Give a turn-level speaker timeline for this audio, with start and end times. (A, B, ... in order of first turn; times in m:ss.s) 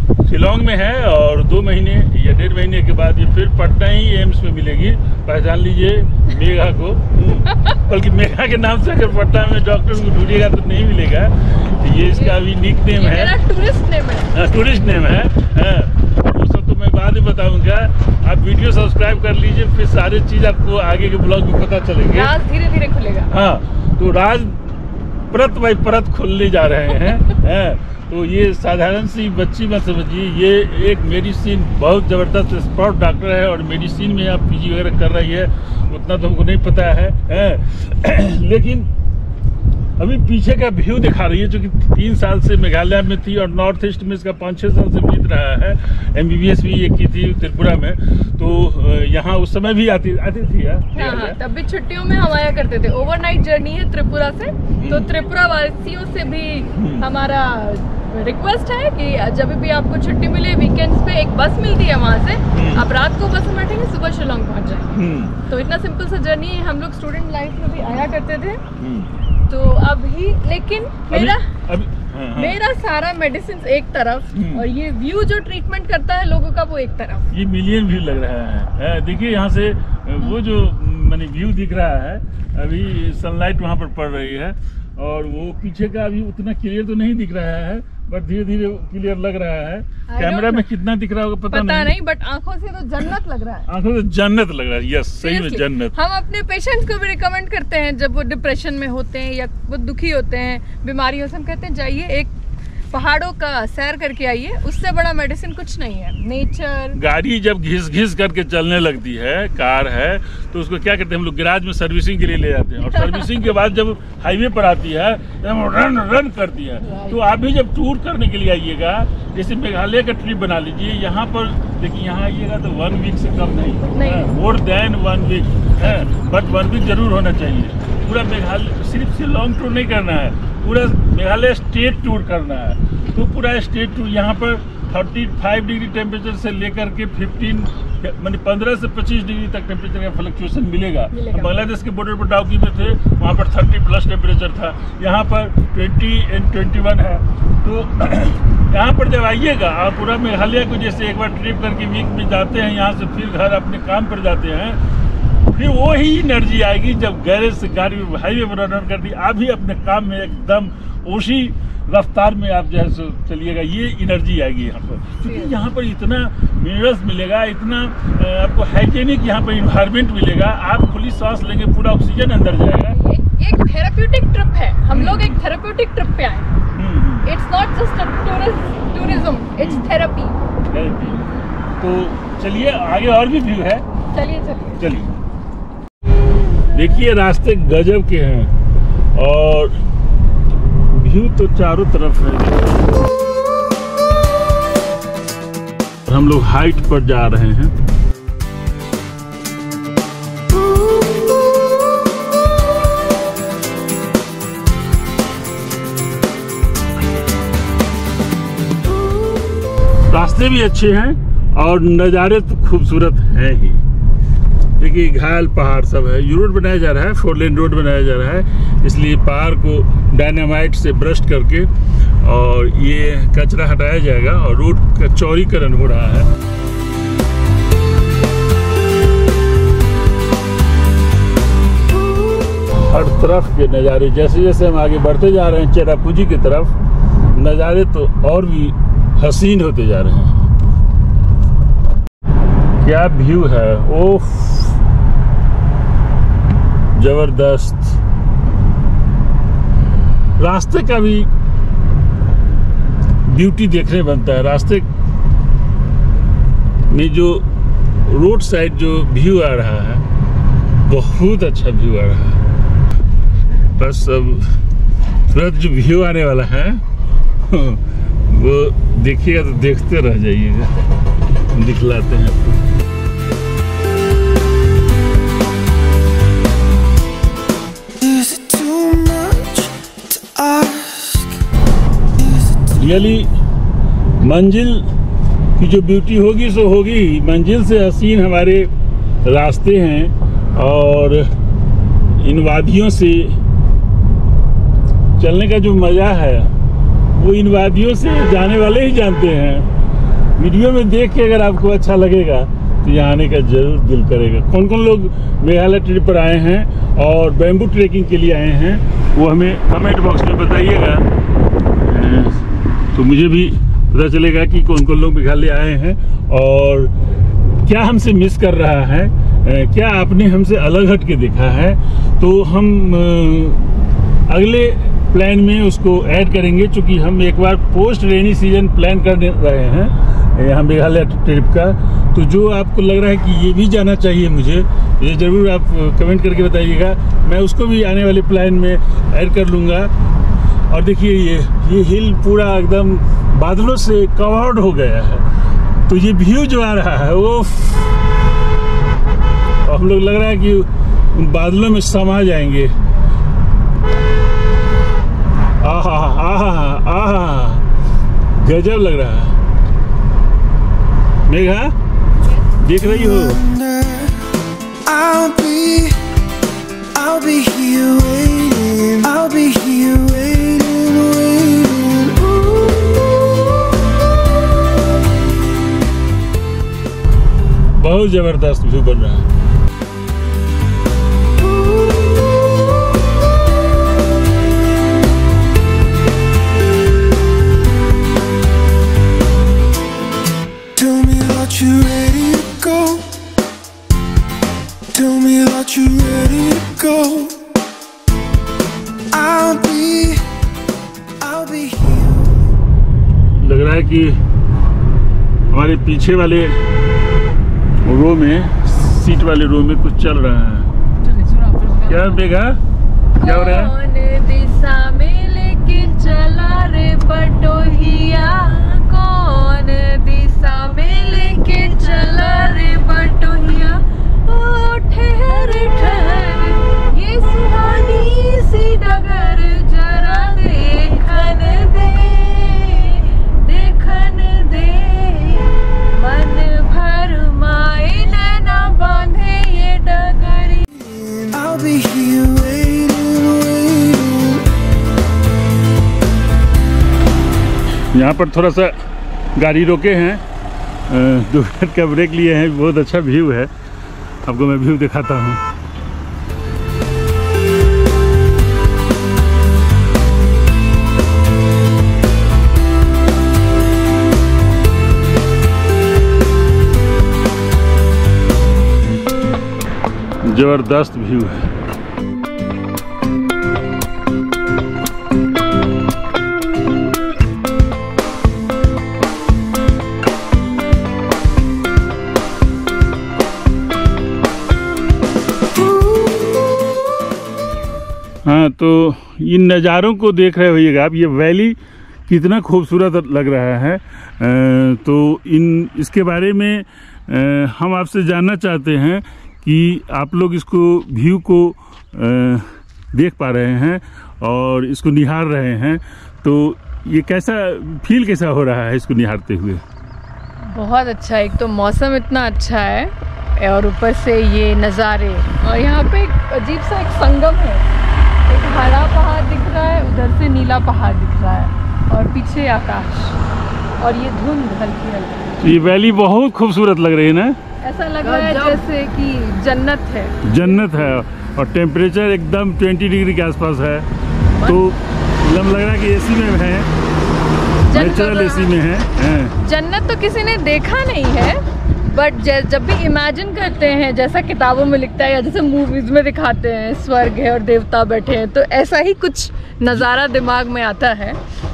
0:00.2-0:13.4 A
0:12.0-0:12.4 B
0:12.9-0:14.3 B
0:14.3-0:22.3 A
0:22.1-0:23.3 B
0:23.3-0:24.6 A
0:25.3-0:38.9 A
0:40.0-0:51.4 A
0:50.9-1:08.6 B
0:54.8-0:55.2 A
0:56.7-0:57.1 A
1:02.5-1:02.9 A
1:04.9-1:05.4 A
1:08.8-1:09.1 A
1:09.5-1:11.4 B
1:11.1-1:12.6 A
1:12.3-1:17.3 B
1:14.3-1:14.6 A
1:17.3-1:31.9 A
1:30.1-1:30.7 B
1:31.5-1:33.6 B
1:33.6-1:35.9 A
1:35.2-1:42.3 B
1:42.9-1:47.0 B
1:46.9-2:34.8 A
1:53.0-1:53.4 B
2:03.9-2:04.3 B
2:21.1-2:21.6 B
2:35.4-2:53.0 A
2:45.2-2:45.5 B
2:52.9-2:56.5 B
2:54.9-2:55.4 A
2:56.7-2:57.3 A
2:57.2-3:00.4 B
2:59.6-2:59.9 A
3:00.7-3:03.8 A
3:04.1-3:04.8 B
3:04.8-3:05.1 A
3:06.7-3:08.5 A
3:09.1-3:09.8 A
3:10.8-3:12.9 A
3:16.0-3:17.7 A
3:30.0-3:33.8 A
3:34.8-3:46.3 A
3:52.7-3:56.7 A
3:57.3-4:00.5 A
4:02.8-4:04.8 A
4:06.9-4:08.0 A
4:10.4-4:11.3 A
4:13.2-4:14.9 A
4:16.9-4:20.0 A
4:20.8-4:22.4 A
4:23.8-4:24.6 A
4:25.3-4:30.8 A
4:31.4-4:32.6 A
4:38.0-4:39.7 C
4:40.3-4:41.1 C
4:42.6-4:43.3 A
4:44.2-4:44.9 A
4:45.6-4:48.7 A
4:49.2-4:51.3 A
4:52.1-4:53.4 A
4:55.2-4:56.5 A
4:57.1-4:59.7 A
5:00.4-5:11.1 A
5:11.8-5:23.7 A
5:24.3-5:39.9 A
5:40.7-5:45.2 A
5:45.8-5:48.0 A
5:49.6-5:52.8 A
5:55.6-5:57.6 A
5:58.3-5:59.4 A
6:01.3-6:01.7 A
6:02.4-6:03.5 A
6:04.9-6:06.0 C
6:06.9-6:11.8 C
6:17.8-6:19.3 A
6:30.8-6:33.1 C
6:34.9-6:37.4 C
6:39.1-6:40.3 C
6:41.2-6:42.3 C
6:43.4-6:44.2 A
6:45.5-6:46.6 A
6:47.8-6:50.7 A
6:51.8-6:52.6 A
6:53.2-7:20.6 B
6:53.2-6:53.7 A
7:20.9-7:24.4 C
7:27.9-7:28.7 A
7:29.4-7:30.2 A
7:30.9-7:33.5 A
7:34.2-7:35.4 A
7:50.2-7:51.5 A
8:08.2-8:29.6 A
8:30.4-8:37.6 B
8:38.2-8:43.2 B
8:43.8-8:45.3 B
8:45.4-8:47.4 A
8:47.6-8:50.8 B
8:48.0-8:48.6 C
8:50.2-8:56.7 A
8:57.7-8:58.6 B
8:57.7-8:59.4 A
8:59.4-9:11.2 B